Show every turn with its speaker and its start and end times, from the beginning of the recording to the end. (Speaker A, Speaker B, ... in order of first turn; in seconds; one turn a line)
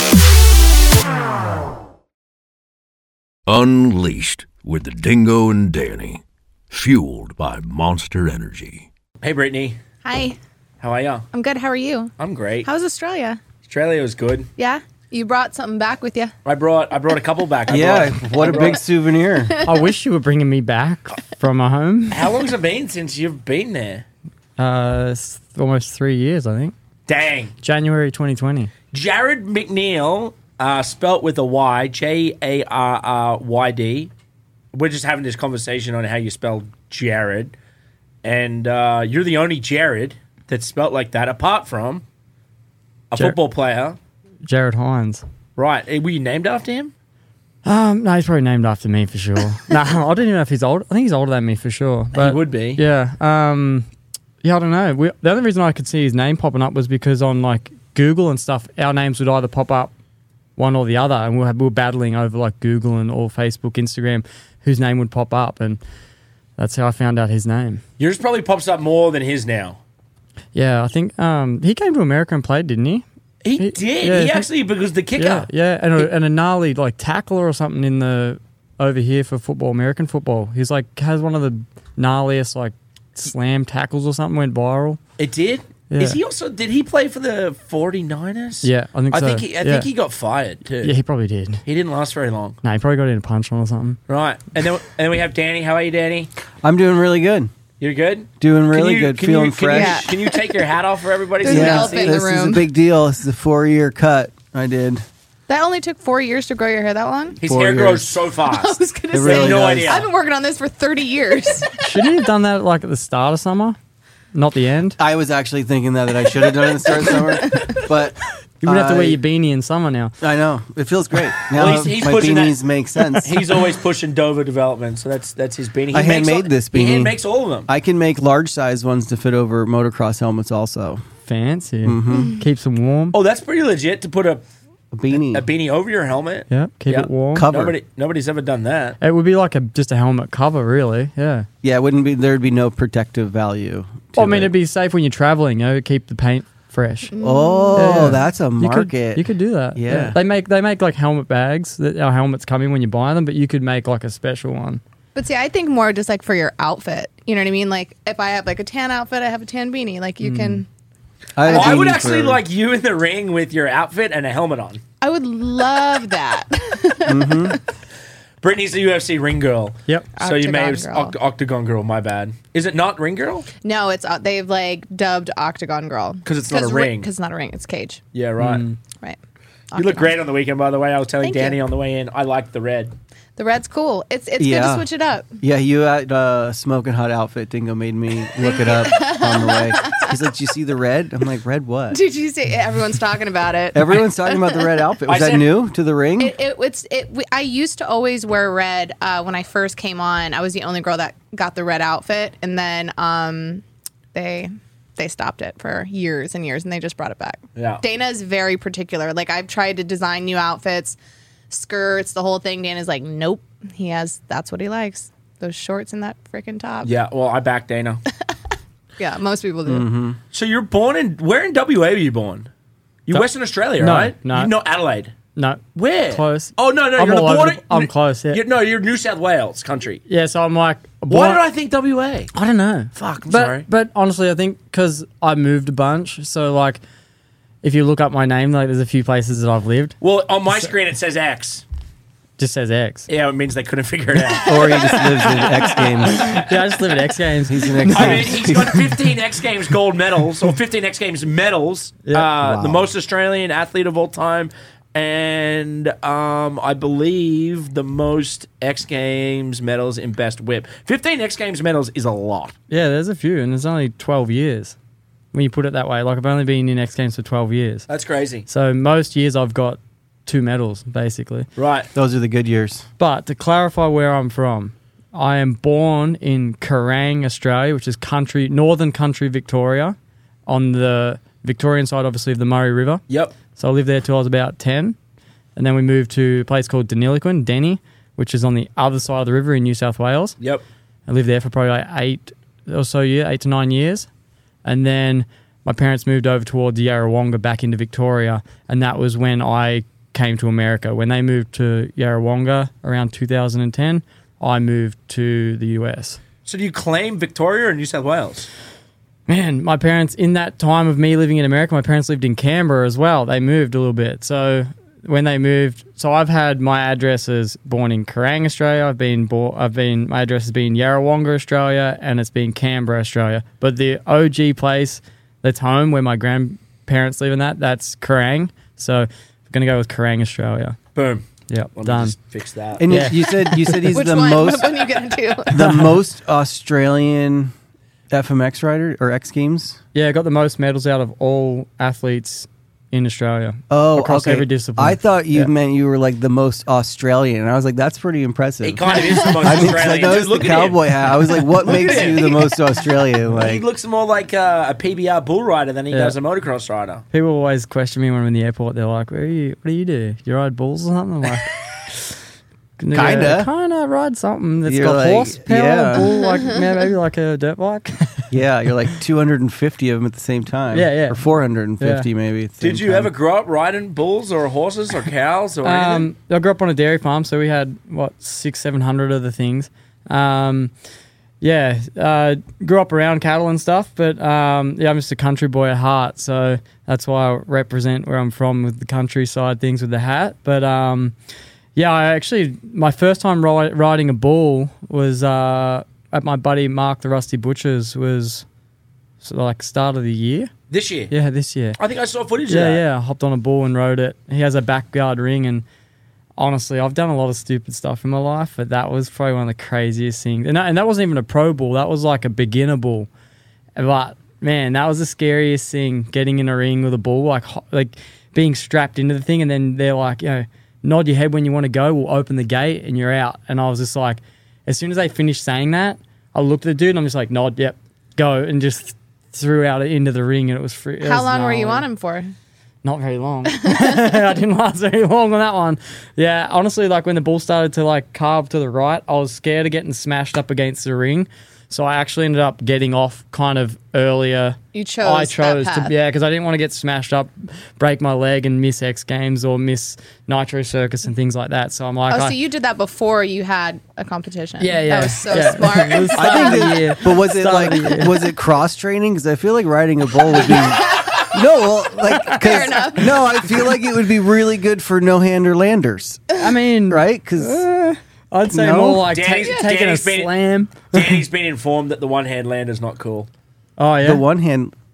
Speaker A: 3.5-8.9
Speaker B: 9.2-9.8
Speaker C: 10.0-10.4
Speaker B: 10.8-11.3
Speaker C: 11.3-12.1
Speaker B: 12.2-12.7
Speaker C: 12.6-13.4
Speaker B: 13.6-14.5
Speaker C: 14.6-16.3
Speaker B: 16.4-18.8
Speaker D: 17.7-19.6
Speaker E: 19.6-22.3
Speaker B: 22.1-24.0
Speaker E: 24.6-26.7
Speaker B: 27.1-27.5
Speaker E: 27.6-28.7
Speaker B: 28.9-34.1
Speaker B: 34.7-37.5
Speaker B: 38.2-42.0
Speaker B: 43.1-44.0
Speaker E: 44.4-45.2
Speaker B: 45.5-46.9
Speaker E: 47.6-53.9
Speaker B: 52.1-52.8
Speaker E: 54.4-59.9
Speaker E: 60.6-65.8
Speaker E: 66.6-67.8
Speaker B: 68.0-69.8
Speaker E: 70.5-73.0
Speaker B: 73.4-75.5
Speaker E: 73.6-74.5
Speaker E: 75.2-85.0
Speaker B: 85.2-90.9
Speaker E: 85.9-86.2
Speaker E: 88.6-89.9
Speaker E: 90.8-91.6
Speaker B: 91.7-92.6
Speaker E: 92.6-94.0
Speaker B: 94.1-96.3
Speaker D: 96.6-97.5
Speaker B: 97.8-102.3
Speaker D: 98.4-100.1
Speaker C: 99.7-100.6
Speaker C: 101.4-102.6
Speaker D: 101.4-105.0
Speaker C: 105.5-107.4
Speaker B: 107.4-110.1
Speaker D: 107.4-108.2
Speaker C: 108.5-111.8
Speaker D: 109.1-110.0
Speaker E: 111.8-113.8
Speaker E: 114.3-115.0
Speaker D: 115.0-119.2
Speaker E: 118.6-120.1
Speaker D: 120.2-123.5
Speaker B: 121.5-122.6
Speaker B: 123.2-127.7
Speaker D: 125.9-131.0
Speaker E: 131.2-133.1
Speaker D: 131.8-132.4
Speaker B: 133.1-134.4
Speaker D: 134.9-135.4
Speaker B: 135.2-139.0
Speaker E: 136.5-137.5
Speaker D: 137.3-137.7
Speaker E: 139.0-141.5
Speaker D: 141.6-144.5
Speaker E: 144.2-147.1
Speaker C: 147.1-148.1
Speaker D: 147.2-150.2
Speaker E: 147.7-154.8
Speaker C: 155.1-160.7
Speaker E: 160.2-160.6
Speaker D: 161.4-162.4
Speaker C: 161.4-162.0
Speaker B: 161.5-164.8
Speaker C: 165.0-167.6
Speaker D: 167.1-167.6
Speaker B: 168.4-173.5
Speaker C: 170.2-171.1
Speaker C: 173.6-178.0
Speaker B: 176.2-177.1
Speaker B: 178.1-178.6
Speaker E: 178.4-178.8
Speaker C: 179.7-180.1
Speaker B: 179.7-182.9
Speaker C: 181.2-181.6
Speaker C: 183.3-185.3
Speaker D: 184.4-184.8
Speaker D: 185.4-192.0
Speaker C: 188.4-190.1
Speaker C: 191.9-194.7
Speaker D: 193.7-196.3
Speaker B: 195.1-195.5
Speaker C: 196.2-211.0
Speaker B: 207.6-207.8
Speaker C: 211.5-216.9
Speaker B: 216.8-218.0
Speaker C: 219.0-219.9
Speaker D: 219.6-220.2
Speaker B: 220.3-222.5
Speaker B: 223.1-225.1
Speaker E: 223.8-224.5
Speaker E: 225.3-228.4
Speaker B: 225.7-230.0
Speaker E: 230.1-231.4
Speaker B: 231.1-232.3
Speaker E: 232.3-236.8
Speaker B: 232.9-233.7
Speaker E: 237.6-239.9
Speaker B: 240.0-241.6
Speaker E: 242.4-243.1
Speaker B: 243.1-245.9
Speaker D: 244.4-246.4
Speaker E: 244.8-245.4
Speaker E: 246.0-248.7
Speaker D: 247.5-248.9
Speaker B: 247.8-262.5
Speaker D: 252.4-252.9
Speaker E: 262.7-264.8
Speaker E: 265.3-267.9
Speaker B: 267.9-268.4
Speaker E: 268.5-271.5
Speaker B: 271.6-271.9
Speaker D: 271.9-272.9
Speaker E: 273.0-279.9
Speaker E: 280.5-283.0
Speaker E: 283.6-284.9
Speaker E: 285.6-290.4
Speaker E: 291.1-294.1
Speaker E: 294.6-306.2
Speaker B: 306.4-308.5
Speaker E: 309.3-330.8
Speaker B: 330.9-331.2
Speaker E: 331.5-332.1
Speaker B: 331.8-332.9
Speaker D: 332.8-334.9
Speaker E: 332.9-333.9
Speaker C: 333.9-335.7
Speaker D: 335.5-337.5
Speaker E: 335.5-335.9
Speaker D: 338.1-339.8
Speaker E: 339.9-345.5
Speaker D: 343.7-353.6
Speaker B: 348.6-352.6
Speaker B: 353.3-357.0
Speaker E: 357.1-362.1
Speaker E: 362.8-368.3
Speaker D: 362.9-363.5
Speaker D: 364.6-366.1
Speaker D: 368.3-373.1
Speaker E: 370.7-371.2
Speaker E: 371.8-372.1
Speaker B: 372.6-376.1
Speaker E: 375.6-380.7
Speaker E: 381.4-391.1
Speaker E: 391.8-398.4
Speaker E: 399.2-400.5
Speaker B: 400.7-401.1
Speaker E: 401.1-401.8
Speaker B: 401.8-402.8
Speaker E: 402.5-405.6
Speaker E: 406.4-413.1
Speaker E: 413.8-431.9
Speaker C: 431.0-432.3
Speaker E: 432.8-452.3
Speaker C: 433.6-434.0
Speaker C: 444.7-445.9
Speaker C: 452.1-456.9
Speaker E: 454.6-458.2
Speaker D: 456.1-466.2
Speaker C: 460.4-461.3
Speaker E: 462.1-462.5
Speaker C: 462.3-463.4
Speaker E: 466.4-470.9
Speaker D: 466.9-467.6
Speaker D: 468.5-469.1
Speaker B: 469.1-470.3
Speaker C: 469.4-469.7
Speaker B: 470.9-473.3
Speaker E: 473.8-474.2
Speaker D: 474.0-474.7